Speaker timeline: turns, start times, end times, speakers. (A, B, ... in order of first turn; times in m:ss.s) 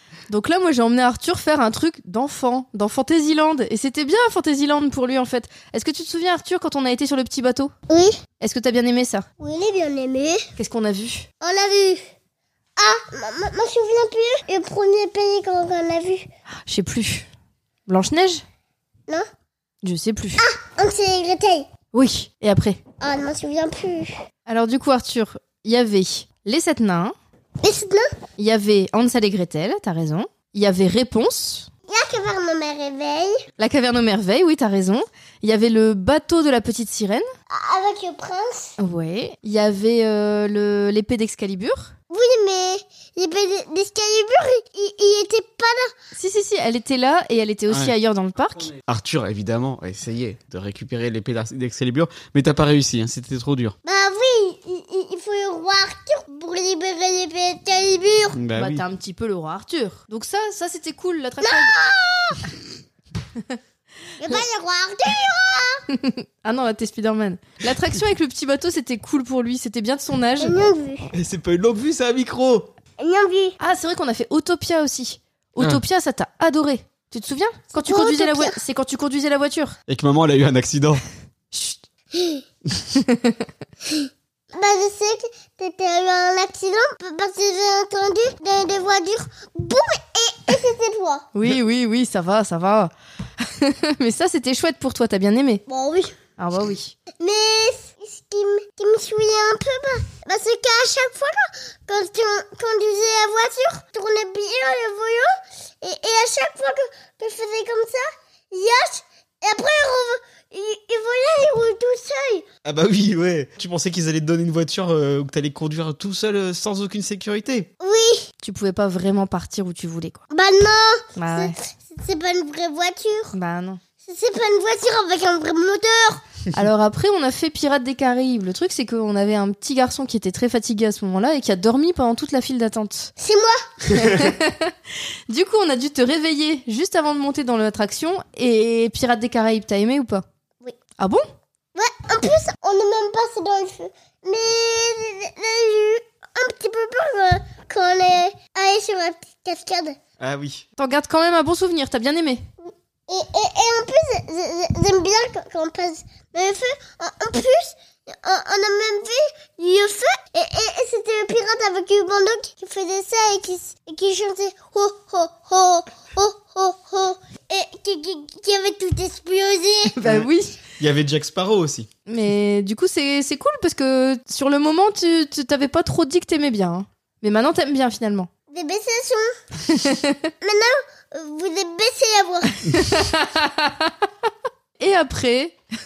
0:00.3-0:07.7 A
0:07.9-0:08.2 B
0:08.4-0:09.2 A
0:09.4-0:10.5 B
0:10.6-0:11.2 A
0:11.4-0:12.0 B
0:12.8-0:16.3 B
0:16.7-0:17.3 A
0:17.9-0:18.4 A
0:19.8-0:20.4 A
0:20.4-0:21.7 B
0:21.9-0:22.8 A
0:23.0-0:24.2 B
0:24.5-0:27.1 A
0:27.6-0:28.2 B
0:28.4-0:31.7 A
0:31.9-0:33.4 B
0:33.6-0:37.3 A
0:37.5-0:38.7 B
0:38.8-0:41.9 A
0:42.1-0:45.9 B
0:46.1-0:48.7 A
0:48.8-0:53.7 C
0:53.8-0:58.4 B
0:58.3-0:58.8 C
0:58.5-1:01.7 A
1:01.4-1:02.5 B
1:04.2-1:05.8 B
1:05.9-1:10.6 A
1:10.4-1:11.1 B
1:11.1-1:12.7 C
1:13.0-1:13.6 B
1:13.6-1:19.8 A
1:17.8-1:18.6 B
1:19.9-1:21.0 C
1:21.5-1:21.8 A
1:22.1-1:22.4 B
1:22.9-1:23.5 A
1:23.8-1:31.3 B
1:31.3-1:35.6 A
1:35.7-1:36.2 B
1:36.4-1:37.0 A
1:37.2-1:52.4 B
1:52.6-1:57.7 C
1:57.8-1:58.3 B
1:58.4-2:00.2 A
2:00.3-2:03.3 B
2:01.2-2:01.6 A
2:03.3-2:03.8 A
2:04.0-2:06.2 B
2:06.5-2:13.1 A
2:13.2-2:13.6 B
2:13.9-2:14.8 A
2:15.3-2:20.2 A
2:21.0-2:21.2 A
2:21.7-2:30.0 B
2:30.2-2:30.6 C
2:30.8-2:32.4 A
2:32.6-2:50.0 B
2:49.9-2:50.6 A
2:50.8-2:51.9 C
2:52.1-2:58.3 A
2:58.5-2:59.3 B
2:59.6-3:00.3 A
3:00.4-3:02.6 B
3:02.7-3:03.9 A
3:04.8-3:05.6 A